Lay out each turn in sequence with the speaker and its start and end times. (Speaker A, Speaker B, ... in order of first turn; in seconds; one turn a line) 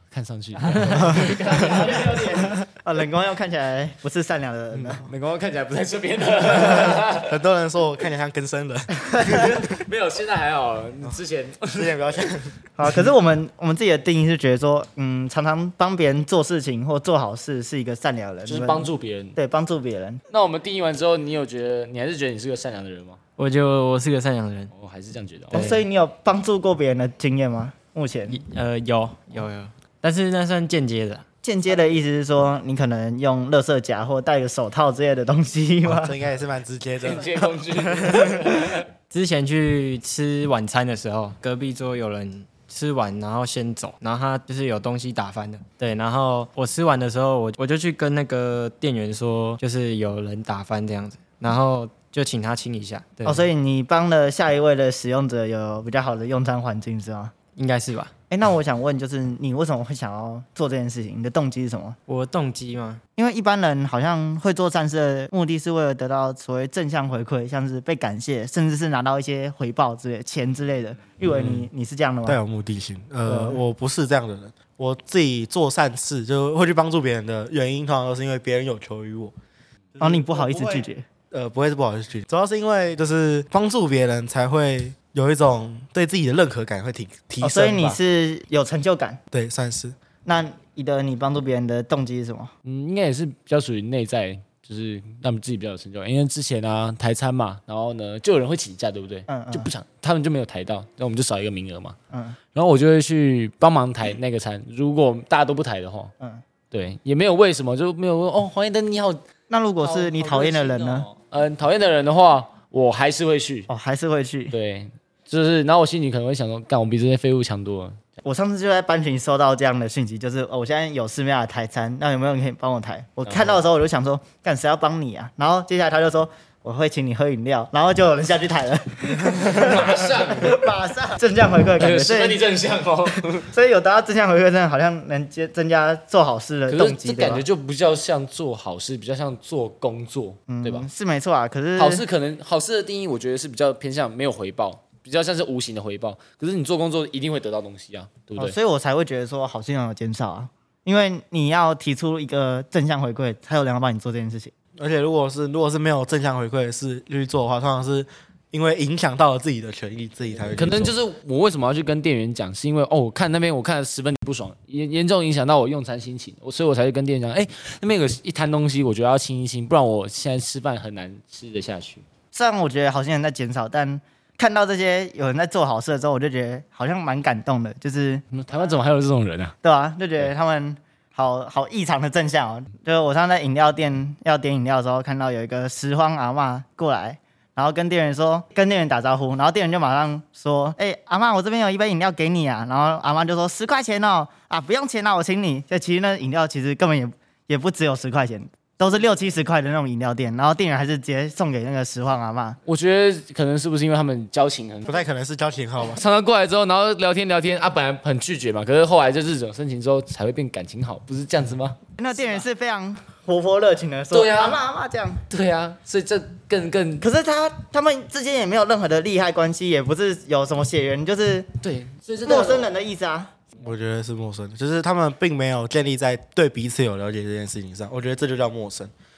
Speaker A: 0.1-2.6
Speaker B: 2.7-5.0
Speaker C: 4.7-5.0
Speaker A: 5.0-7.3
Speaker C: 6.8-9.6
Speaker A: 9.2-11.9
Speaker C: 11.7-12.8
Speaker B: 12.8-20.2
Speaker A: 18.4-19.4
Speaker A: 20.3-23.2
Speaker D: 23.4-24.7
Speaker A: 24.7-25.7
Speaker B: 25.5-28.4
Speaker D: 25.5-25.8
Speaker D: 28.3-31.2
Speaker B: 31.4-36.1
Speaker C: 35.8-37.3
Speaker A: 37.0-38.9
Speaker D: 39.1-53.5
Speaker B: 53.2-57.3
Speaker D: 57.5-58.1
Speaker B: 58.3-62.0
Speaker D: 62.1-63.0
Speaker B: 63.2-72.4
Speaker C: 71.2-71.7
Speaker C: 72.2-79.3
Speaker B: 73.2-73.6
Speaker C: 80.0-88.0
Speaker B: 80.0-81.0
Speaker B: 87.4-89.2
Speaker C: 89.3-90.0
Speaker B: 90.2-92.5
Speaker A: 92.6-102.0
Speaker B: 99.3-99.7
Speaker B: 102.1-102.4
Speaker A: 102.5-106.1
Speaker A: 106.7-109.2
Speaker B: 109.5-111.1
Speaker A: 109.8-113.7
Speaker B: 113.7-114.5
Speaker A: 114.5-118.0
Speaker B: 118.2-132.4
Speaker A: 123.2-123.6
Speaker A: 129.2-130.6
Speaker A: 131.8-133.4
Speaker B: 133.4-137.4
Speaker A: 136.7-140.9
Speaker B: 140.5-142.0
Speaker A: 141.8-148.6
Speaker B: 148.4-154.5
Speaker C: 154.8-160.9
Speaker A: 160.5-172.0
Speaker B: 172.3-178.8
Speaker A: 178.3-179.5
Speaker B: 179.6-202.6
Speaker A: 202.7-205.0
Speaker C: 204.9-206.0
Speaker A: 205.8-212.4
Speaker B: 212.0-215.2
Speaker A: 214.1-214.6
Speaker A: 215.3-217.1
Speaker B: 217.0-221.5
Speaker A: 221.6-222.7
Speaker B: 222.2-223.3
Speaker C: 223.6-228.9